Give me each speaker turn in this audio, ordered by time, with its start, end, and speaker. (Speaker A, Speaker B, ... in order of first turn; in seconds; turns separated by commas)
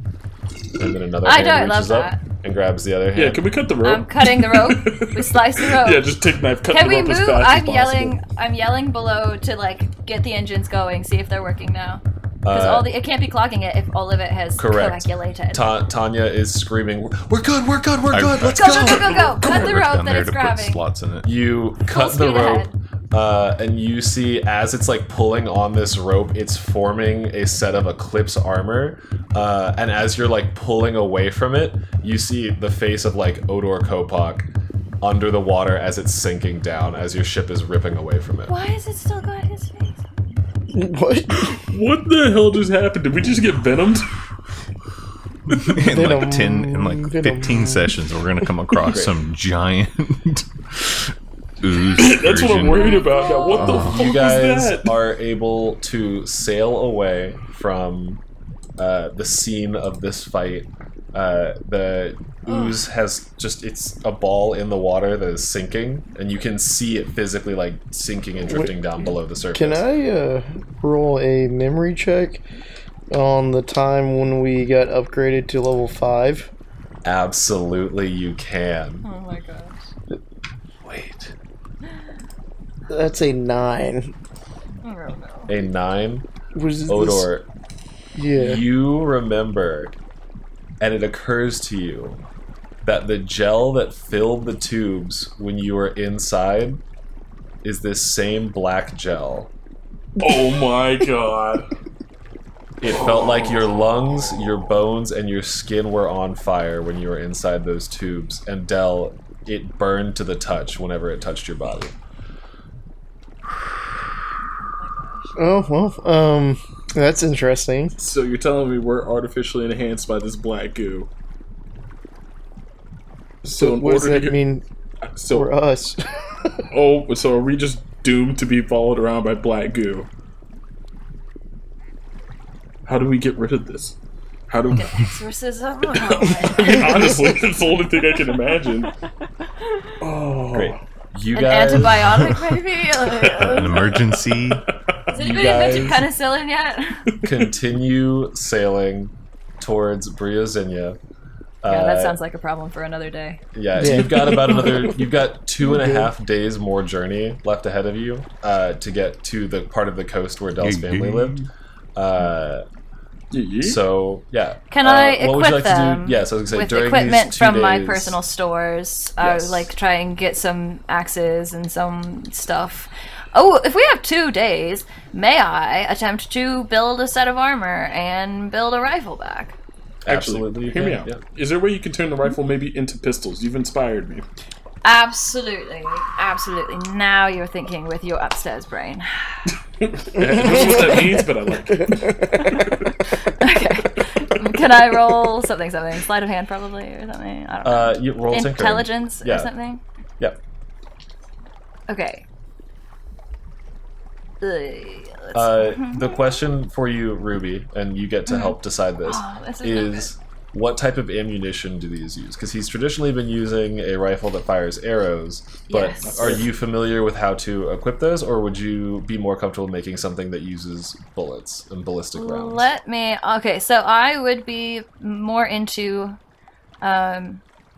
Speaker A: 0.8-3.4, Speaker B: 1.2-2.2, Speaker C: 3.1-8.2, Speaker B: 3.8-6.1, Speaker B: 6.7-15.7, Speaker A: 12.4-12.9, Speaker A: 14.6-19.6, Speaker D: 18.1-21.3, Speaker B: 18.4-20.8, Speaker A: 21.2-34.5, Speaker B: 21.8-22.7, Speaker A: 35.0-38.5, Speaker B: 38.5-40.0, Speaker E: 40.7-41.6, Speaker C: 41.4-44.1, Speaker D: 45.6-53.0, Speaker E: 45.8-47.9, Speaker A: 48.9-49.1, Speaker C: 51.9-54.9, Speaker B: 52.7-53.9, Speaker D: 53.5-54.0, Speaker A: 53.8-58.2, Speaker A: 58.8-69.8, Speaker E: 69.5-72.4, Speaker E: 73.1-76.5, Speaker A: 77.0-79.0, Speaker B: 79.0-79.8, Speaker D: 80.8-81.3, Speaker E: 82.9-84.1, Speaker B: 84.8-85.5, Speaker A: 85.5-86.3, Speaker E: 86.5-87.3, Speaker A: 86.9-87.5, Speaker E: 88.2-88.6, Speaker A: 88.3-89.9, Speaker A: 90.8-92.2, Speaker A: 92.8-96.8, Speaker A: 97.6-99.5, Speaker C: 100.2-101.7, Speaker A: 102.8-111.9, Speaker C: 103.0-103.6, Speaker B: 114.7-115.3, Speaker E: 115.4-117.9, Speaker C: 118.0-121.1, Speaker C: 123.4-124.4, Speaker E: 123.6-124.6, Speaker C: 125.0-125.5, Speaker E: 125.3-126.6, Speaker C: 126.7-130.1, Speaker C: 132.8-133.9, Speaker C: 134.5-134.9, Speaker B: 134.7-137.2, Speaker C: 136.1-138.9, Speaker C: 140.0-140.8, Speaker A: 140.5-142.3, Speaker B: 141.3-144.0, Speaker D: 143.2-144.7, Speaker C: 143.7-144.9, Speaker B: 145.1-147.1, Speaker A: 145.1-146.1, Speaker A: 147.2-151.0, Speaker A: 151.6-152.2, Speaker B: 151.7-153.4, Speaker A: 153.5-161.4, Speaker E: 153.8-154.6, Speaker C: 154.1-154.5, Speaker E: 155.7-156.1, Speaker D: 160.6-161.5, Speaker A: 161.9-162.6, Speaker C: 163.3-163.8, Speaker A: 163.6-168.2, Speaker B: 164.7-179.6, Speaker A: 169.2-169.7, Speaker A: 180.0-181.2, Speaker C: 180.1-184.2, Speaker B: 184.8-189.5, Speaker C: 189.8-192.6, Speaker E: 190.2-191.2, Speaker E: 191.8-192.7, Speaker B: 192.5-199.8, Speaker A: 197.6-199.5, Speaker B: 201.9-202.2, Speaker B: 204.4-206.3, Speaker A: 205.3-222.7, Speaker B: 208.3-210.1, Speaker B: 215.7-216.4, Speaker C: 216.0-216.4, Speaker B: 222.1-226.2, Speaker B: 226.8-227.4